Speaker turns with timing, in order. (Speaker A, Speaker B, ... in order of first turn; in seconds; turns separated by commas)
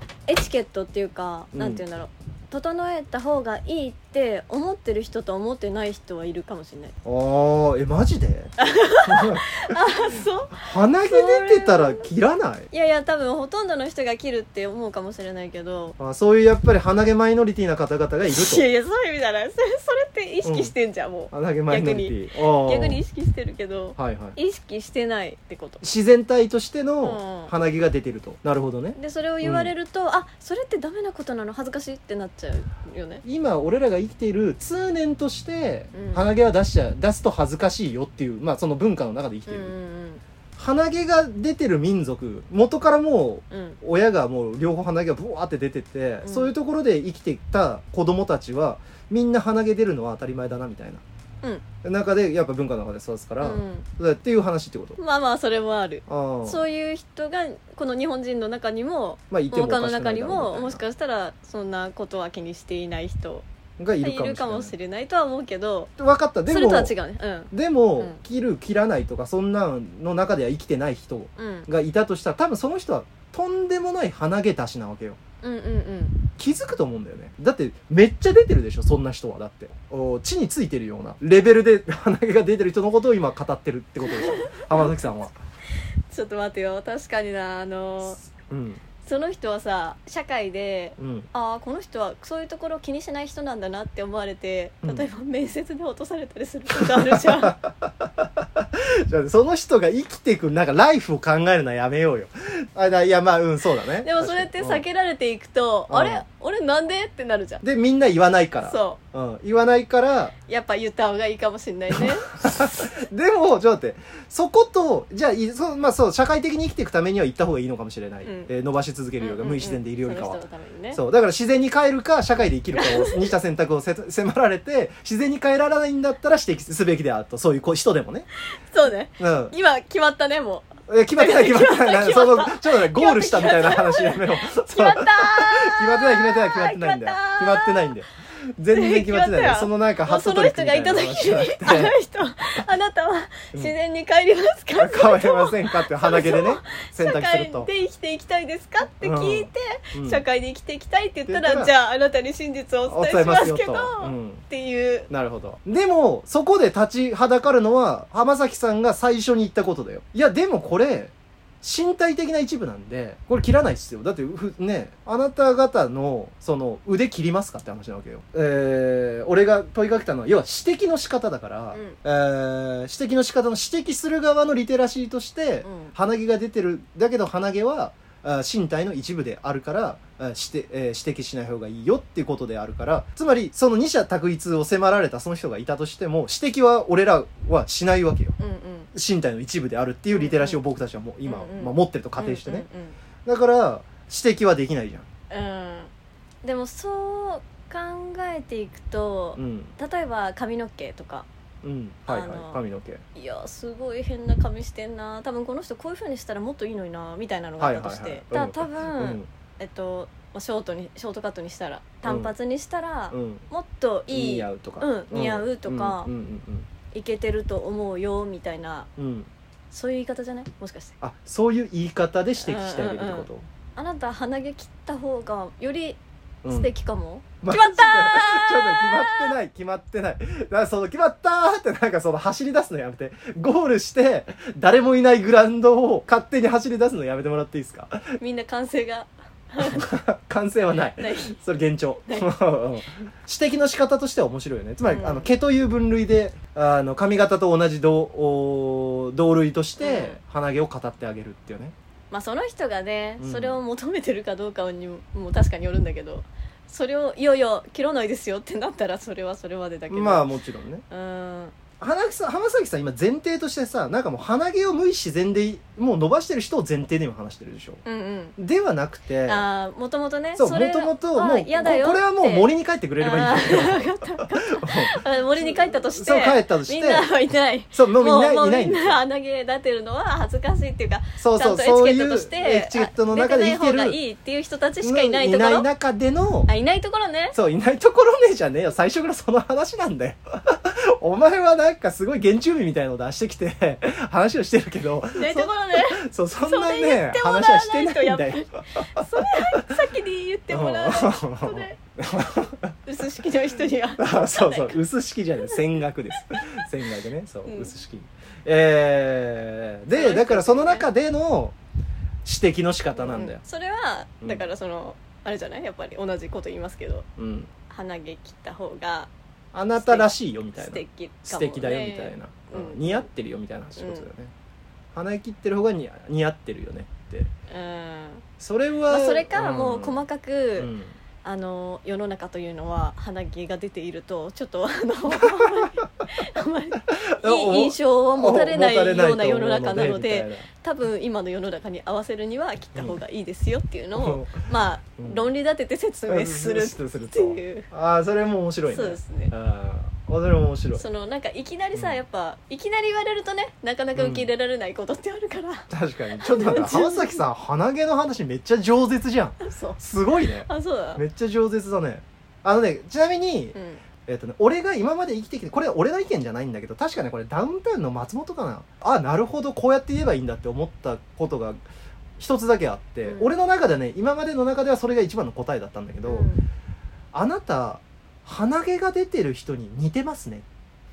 Speaker A: 0.3-6.9, Speaker B: 1.5-1.8, Speaker B: 7.0-8.5, Speaker A: 8.6-12.1, Speaker B: 9.0-9.6, Speaker B: 10.6-12.7, Speaker A: 12.7-15.9, Speaker B: 16.0-18.6, Speaker A: 18.3-25.8, Speaker B: 20.4-20.7, Speaker B: 21.3-23.0, Speaker B: 24.0-24.4, Speaker B: 25.8-29.7, Speaker A: 27.0-27.5, Speaker A: 28.9-33.2, Speaker B: 33.2-39.7, Speaker A: 35.9-36.3, Speaker A: 39.5-40.2, Speaker B: 40.6-51.0, Speaker A: 43.5-43.8, Speaker A: 46.2-46.5, Speaker B: 51.8-55.0, Speaker A: 53.4-53.9, Speaker A: 55.0-63.5, Speaker B: 56.1-56.6, Speaker B: 59.3-60.8, Speaker B: 63.8-64.7, Speaker A: 64.0-65.9, Speaker B: 66.0-66.9, Speaker A: 66.5-68.2, Speaker B: 67.5-75.2, Speaker A: 71.4-71.7, Speaker A: 75.4-76.2, Speaker B: 76.4-85.3, Speaker A: 84.1-84.9, Speaker A: 86.1-88.2, Speaker B: 88.5-88.8, Speaker A: 89.0-97.5, Speaker B: 91.0-91.3, Speaker B: 96.8-104.8, Speaker A: 104.0-107.6, Speaker B: 105.9-106.2, Speaker B: 107.6-110.3, Speaker A: 108.6-109.0, Speaker A: 110.5-112.9, Speaker B: 111.9-120.4, Speaker A: 118.2-118.5, Speaker A: 119.2-121.0, Speaker B: 120.9-128.3, Speaker A: 122.7-123.3, Speaker A: 128.7-137.9, Speaker B: 129.2-129.5, Speaker B: 130.9-141.9, Speaker A: 138.7-155.1, Speaker B: 144.8-147.7, Speaker B: 149.0-150.2, Speaker B: 151.3-151.7, Speaker B: 152.9-154.4, Speaker B: 155.1-188.3, Speaker A: 171.7-172.0, Speaker A: 175.6-175.9, Speaker A: 188.4-188.9, Speaker B: 188.9-192.7, Speaker A: 190.1-190.6, Speaker A: 191.2-193.0, Speaker B: 193.2-195.1, Speaker A: 195.3-195.9, Speaker A: 196.4-201.3, Speaker B: 199.3-199.7, Speaker B: 201.6-203.0, Speaker A: 202.1-202.6, Speaker A: 203.1-216.1, Speaker B: 207.6-209.3, Speaker B: 212.0-212.3, Speaker B: 213.1-213.4, Speaker B: 214.1-216.7, Speaker A: 216.9-218.9, Speaker B: 219.0-219.3, Speaker A: 219.7-221.0, Speaker B: 221.0-223.4, Speaker A: 222.4-229.3, Speaker B: 226.4-226.7, Speaker B: 227.4-238.2, Speaker A: 238.2-239.8, Speaker B: 239.6-251.7, Speaker A: 241.0-241.3, Speaker A: 244.8-245.3, Speaker A: 249.8-250.2, Speaker A: 252.1-260.3, Speaker B: 253.2-253.6, Speaker B: 259.9-260.8, Speaker A: 260.9-261.5, Speaker B: 261.8-267.8, Speaker A: 267.8-268.4, Speaker B: 268.4-269.4, Speaker A: 269.2-272.5, Speaker B: 270.4-277.1, Speaker A: 273.0-285.7, Speaker B: 277.7-279.0, Speaker B: 281.2-284.0, Speaker B: 284.8-286.5, Speaker A: 286.5-287.4, Speaker B: 287.3-299.7, Speaker A: 295.1-301.8, Speaker B: 300.5-302.8, Speaker A: 302.9-304.8, Speaker B: 304.0-311.5, Speaker A: 307.4-307.7, Speaker A: 309.9-310.9, Speaker B: 312.2-313.4, Speaker A: 312.9-317.1, Speaker B: 314.2-314.5, Speaker B: 317.2-317.5, Speaker A: 317.7-319.1, Speaker B: 319.5-324.3, Speaker A: 319.7-323.1, Speaker A: 323.8-324.1, Speaker B: 324.9-327.3, Speaker A: 327.5-328.2, Speaker B: 328.4-330.0, Speaker A: 328.9-330.7, Speaker B: 330.6-330.9, Speaker A: 331.2-347.7, Speaker B: 335.2-335.6, Speaker B: 336.9-340.4, Speaker B: 343.9-344.4, Speaker B: 345.0-345.3, Speaker B: 346.1-350.8, Speaker A: 348.7-349.3, Speaker A: 350.7-357.2, Speaker B: 351.7-352.0, Speaker B: 353.9-354.3, Speaker B: 355.7-363.6, Speaker A: 359.4-361.0, Speaker A: 363.5-363.8, Speaker B: 364.1-371.6, Speaker B: 372.2-376.3, Speaker A: 373.0-373.3, Speaker A: 376.0-376.4, Speaker B: 377.1-380.4